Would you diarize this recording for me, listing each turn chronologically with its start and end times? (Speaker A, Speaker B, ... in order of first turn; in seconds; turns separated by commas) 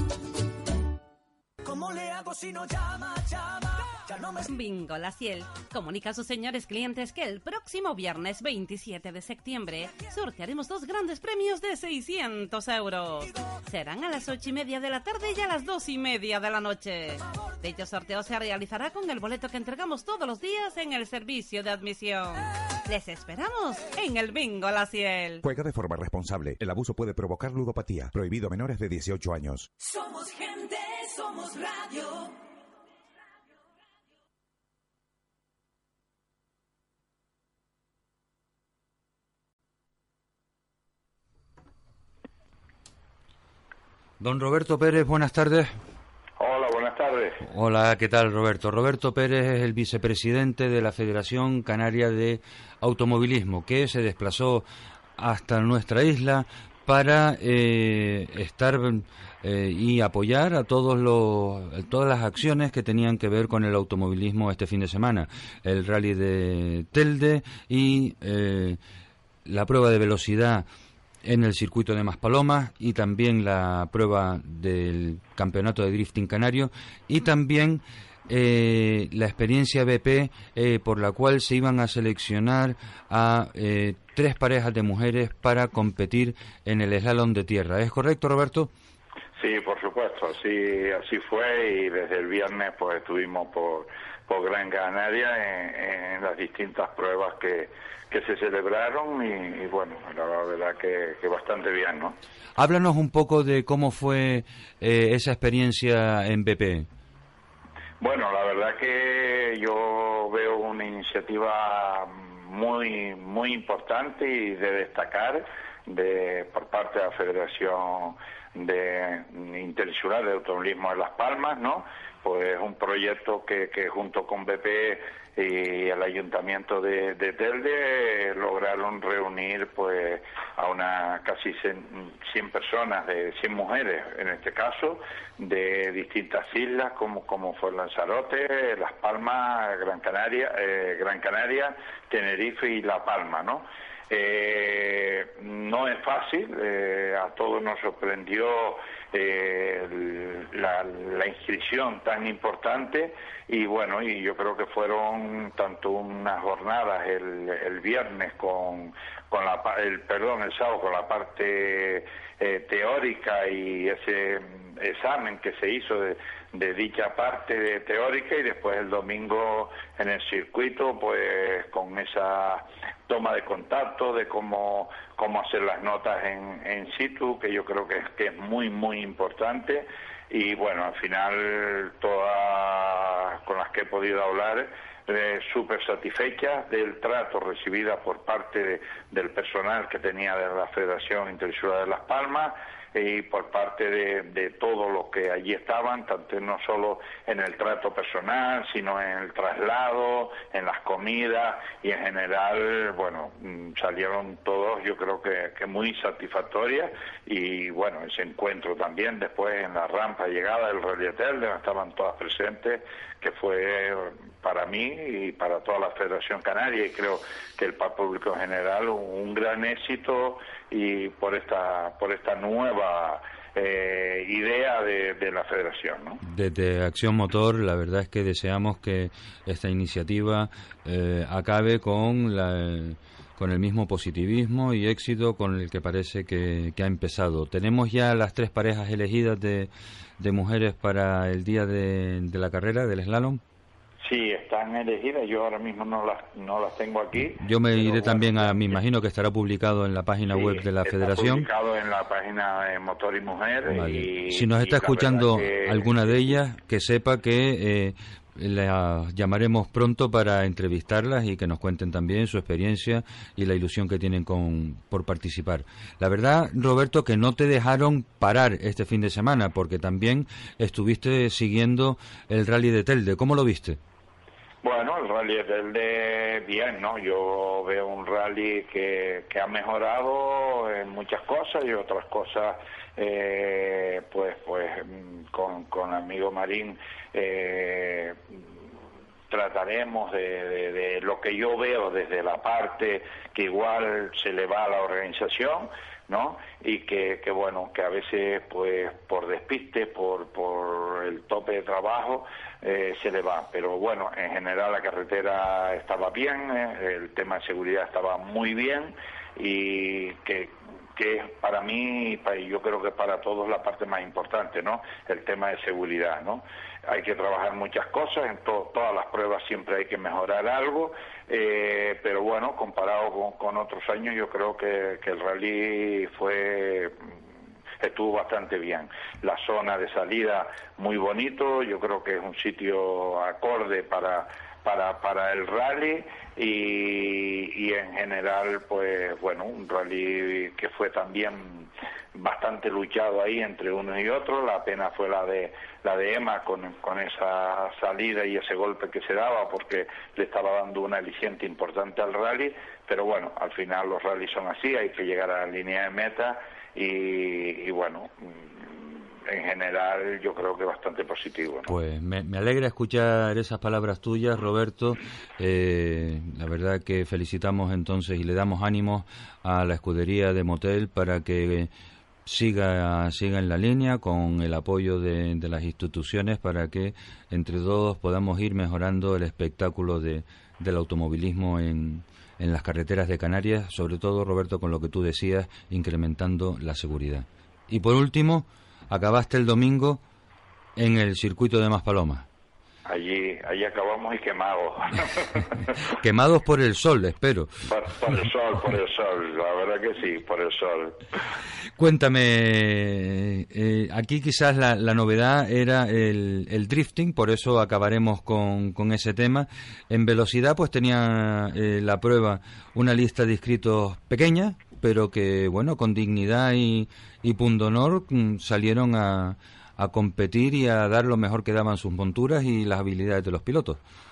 Speaker A: 1.6-4.5, Speaker B: 4.5-25.4, Speaker C: 25.4-29.7, Speaker A: 29.8-32.4, Speaker D: 44.2-45.7, Speaker E: 46.4-47.4, Speaker D: 47.4-54.6, Speaker D: 55.2-68.8, Speaker D: 69.5-70.7, Speaker D: 71.2-88.7, Speaker E: 89.4-102.2, Speaker D: 102.6-106.9, Speaker E: 108.0-226.2, Speaker D: 226.2-243.4, Speaker E: 244.0-248.8, Speaker D: 247.2-251.5, Speaker E: 250.3-256.4, Speaker D: 253.7-273.8, Speaker E: 274.6-288.4, Speaker E: 289.3-327.0, Speaker E: 327.8-361.7, Speaker D: 361.6-371.7, Speaker D: 372.2-390.0, Speaker D: 390.8-392.2, Speaker E: 392.9-395.6, Speaker D: 396.0-397.6, Speaker E: 397.7-401.0, Speaker D: 401.8-423.8